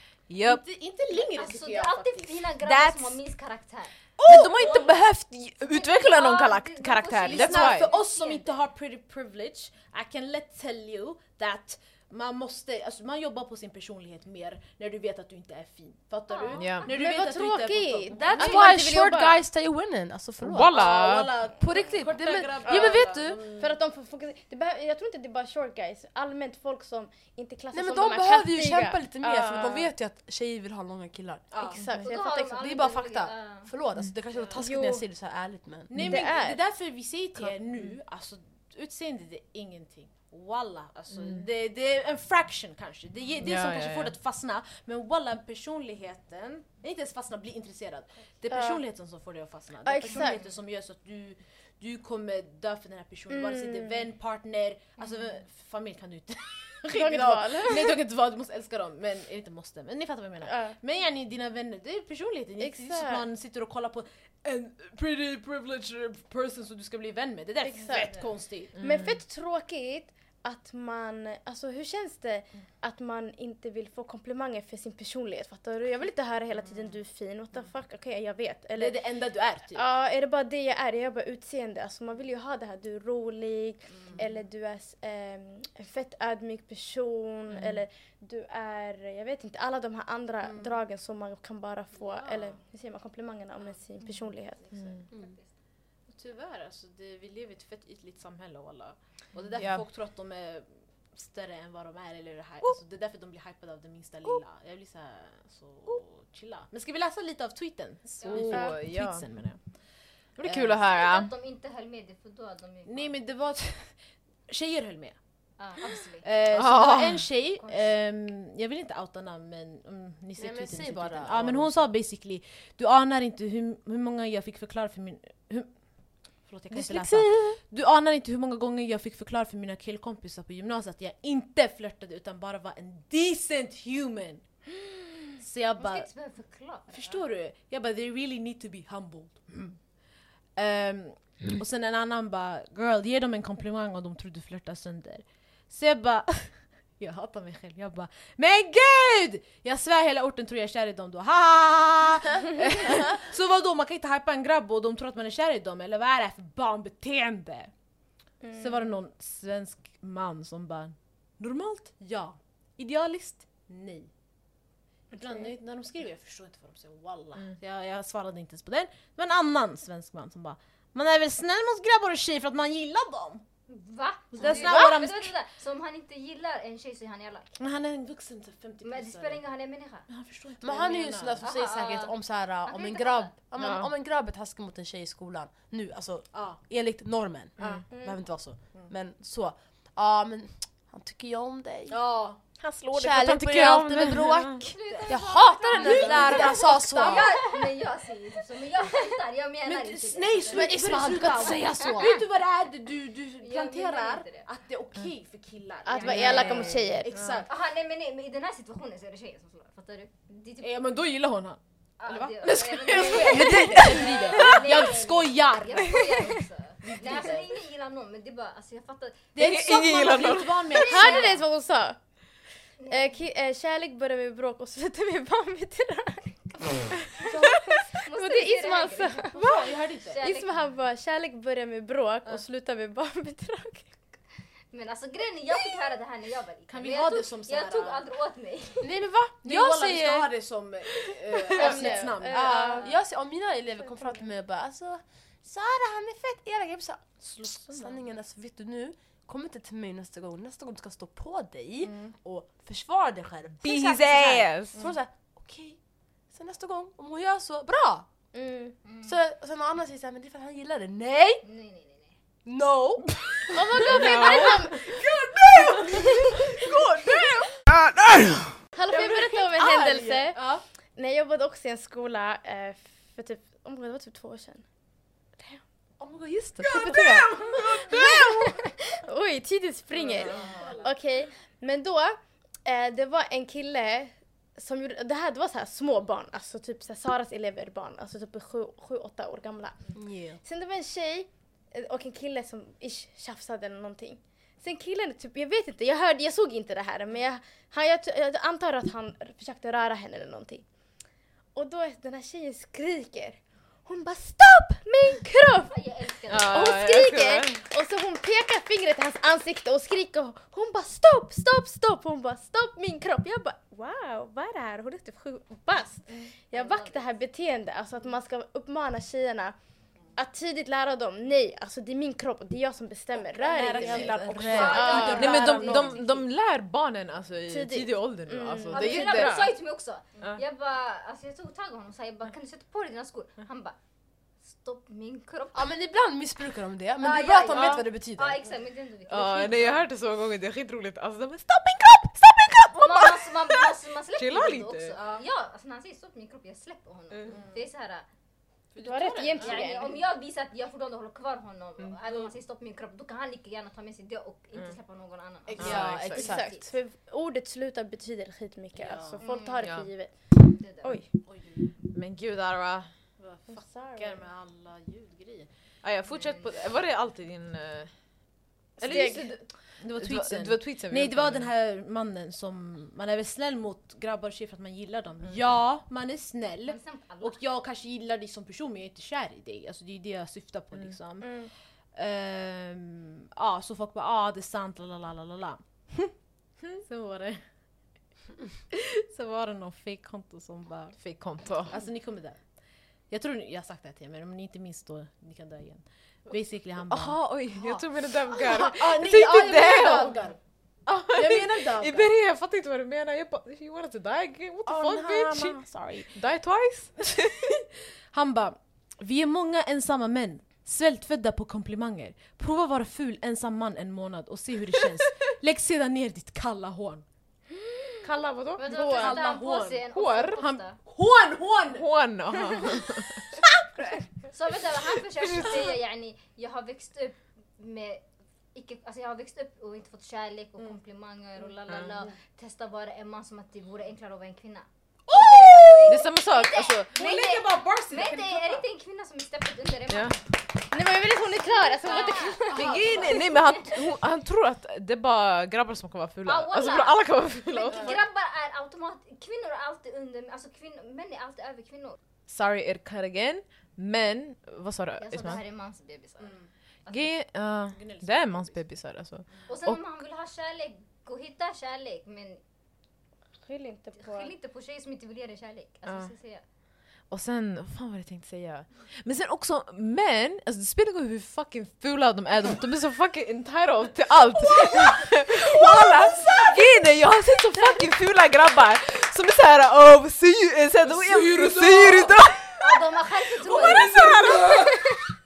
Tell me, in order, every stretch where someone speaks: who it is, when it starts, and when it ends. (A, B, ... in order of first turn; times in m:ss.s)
0:00.3-0:00.6 A
0:00.4-0:02.5 B
0:01.1-0:03.9 C
0:02.6-0:03.2 A
0:04.2-0:04.8 B
0:04.2-0:07.9 A
0:05.7-0:08.5 C
0:07.2-0:18.6 B
0:16.3-0:16.9 C
0:16.6-0:16.9 A
0:16.8-0:19.4 D
0:18.1-0:20.9 E
0:20.4-0:21.3 A
0:20.7-0:23.7 B
0:21.6-0:23.4 E
0:23.4-0:29.9 D
0:27.7-0:31.4 E
0:31.5-0:31.9 B
0:31.6-0:32.6 D
0:32.0-0:33.7 C
0:32.4-0:36.0 E
0:34.6-0:35.0 D
0:35.9-1:08.8 B
0:36.0-0:36.6 D
0:43.4-0:44.1 A
0:48.5-0:48.8 D
0:49.8-0:50.4 D
0:53.3-0:54.0 D
0:56.9-0:58.0 D
1:00.4-1:00.8 D
1:02.6-1:03.2 D
1:07.6-1:19.0 D
1:08.8-1:09.2 A
1:18.7-1:19.8 B
1:19.7-1:34.9 D
1:23.9-1:24.3 B
1:27.5-1:27.8 A
1:30.4-1:30.8 B
1:31.9-1:32.6 B
1:34.6-1:35.5 C
1:34.7-1:35.0 A
1:36.1-1:49.6 B
1:39.6-1:39.8 A
1:48.2-1:48.5 C
1:48.3-1:49.2 A
1:48.5-1:48.8 D
1:50.4-1:51.3 A
1:50.4-1:50.8 B
1:50.8-1:53.2 C
1:52.8-1:54.0 B
1:54.5-1:55.2 B
1:55.6-1:56.2 C
1:56.2-2:05.7 B
1:56.5-1:57.3 A
1:57.6-1:57.8 C
2:00.4-2:01.9 E
2:06.4-2:14.4 B
2:15.4-2:16.1 B
2:15.8-2:17.2 C
2:16.9-2:19.8 B
2:20.6-2:37.7 B
2:38.4-2:39.0 D
2:38.5-2:44.1 B
2:45.1-2:53.4 B
2:45.1-2:45.5 D
2:53.7-2:57.5 C
2:54.3-2:55.3 B
2:57.6-2:59.4 B
2:58.8-3:00.1 C
3:00.1-3:01.5 B
3:00.6-3:12.0 E
3:01.4-3:02.1 C
3:02.6-3:03.3 C
3:03.6-3:03.9 A
3:06.3-3:06.6 B
3:07.6-3:07.8 A
3:07.9-3:08.2 D
3:11.9-3:12.4 B
3:12.6-3:14.7 A
3:12.9-3:17.3 E
3:14.7-3:22.2 C
3:15.6-3:17.6 B
3:19.6-3:27.5 B
3:20.5-3:22.0 E
3:23.4-3:24.5 C
3:25.8-3:27.1 D
3:26.0-3:26.7 C
3:26.2-3:26.6 A
3:27.1-3:27.4 A
3:27.5-3:30.8 C
3:30.6-3:37.6 B
3:32.0-3:39.3 C
3:33.1-3:34.7 A
3:39.3-3:41.4 B
3:39.4-3:40.8 A
3:40.7-3:41.4 C
3:40.8-3:42.0 D
3:42.8-3:43.2 C
3:42.9-3:53.9 D
3:48.0-3:49.5 C
3:49.3-3:50.2 B
3:50.1-3:50.6 C
3:54.7-3:58.9 C
3:56.7-3:58.0 B
3:58.8-4:00.3 E
3:59.4-4:02.9 B
4:01.5-4:02.9 D
4:01.8-4:15.8 E
4:07.2-4:08.0 B
4:11.9-4:12.1 B
4:13.6-4:14.8 A
4:16.3-4:18.1 E
4:18.3-4:18.8 D
4:18.8-4:19.2 C
4:19.0-4:21.4 E
4:21.4-4:22.1 C
4:22.4-4:27.5 E
4:23.5-4:25.0 D
4:23.8-4:24.7 A
4:28.7-4:30.4 D
4:28.9-4:30.4 E
4:29.1-4:30.6 B
4:30.9-4:34.6 D
4:36.0-4:37.2 E
4:36.6-4:37.0 A
4:36.7-5:00.6 D
4:37.0-4:38.0 B
4:40.2-4:40.8 B
4:49.9-4:50.4 E
5:01.5-5:05.7 D
5:05.7-5:06.7 C
5:06.3-5:07.6 A
5:06.5-5:19.6 D
5:16.5-5:17.2 C
5:20.2-5:25.7 D
5:23.2-5:26.1 B
5:23.6-5:25.2 E
5:24.5-5:26.2 C
5:25.1-5:29.4 A
5:27.5-5:29.5 D
5:28.7-5:33.8 C
5:34.4-5:35.7 C
5:35.5-5:38.4 E
5:37.0-5:39.8 C
5:39.1-5:45.0 A
5:42.8-5:48.0 C
5:44.9-5:45.2 B
5:47.2-5:47.6 B
5:48.7-5:49.7 B
5:48.8-5:50.0 D
5:49.4-5:56.7 C
5:55.5-5:56.1 B
5:55.6-5:56.4 A
5:56.1-6:01.1 D
5:58.7-5:59.3 B
5:59.2-5:59.6 C
5:59.6-5:59.9 A
6:00.6-6:01.0 C
6:01.2-6:01.7 B
6:01.9-6:02.9 A
6:03.2-6:05.5 B
6:03.5-6:04.2 D
6:05.8-6:07.9 A
6:06.1-6:06.5 C
6:08.8-6:09.4 D
6:08.8-6:11.5 A
6:09.8-6:21.3 B
6:15.3-6:15.6 A
6:16.6-6:17.4 C
6:21.2-6:21.5 D
6:22.0-6:26.1 B
6:26.8-6:27.4 B
6:28.7-6:31.0 B
6:31.0-6:31.8 A
6:31.6-6:32.4 B
6:33.1-6:40.4 B
6:36.8-6:40.2 A
6:40.9-6:45.6 A
6:41.1-6:42.1 B
6:44.6-6:46.1 B
6:46.1-6:47.4 A
6:48.1-6:57.0 B
6:57.5-6:58.1 D
6:58.0-6:58.6 A
6:58.6-7:00.8 C
6:58.6-6:59.2 D
6:58.7-7:01.9 B
6:59.9-7:00.4 A
7:01.7-7:03.2 A
7:04.3-7:08.0 C
7:08.5-7:20.2 C
7:15.2-7:16.0 B
7:15.8-7:16.9 A
7:16.9-7:18.6 B
7:19.9-7:20.2 A
7:20.7-7:22.6 D
7:21.8-7:23.7 C
7:21.8-7:23.3 B
7:22.5-7:28.0 A
7:26.2-7:32.0 C
7:27.7-7:28.0 B
7:32.3-7:35.4 A
7:35.0-7:36.3 C
7:36.2-7:36.5 B
7:36.9-7:39.8 A
7:37.7-7:38.6 B
7:39.5-7:42.4 C
7:43.4-7:44.3 D
7:44.0-7:46.4 C
7:45.8-7:46.1 A
7:47.1-8:02.6 A
8:00.9-8:02.1 B
8:02.6-8:04.7 C
8:03.5-8:04.4 B
8:03.7-8:04.5 A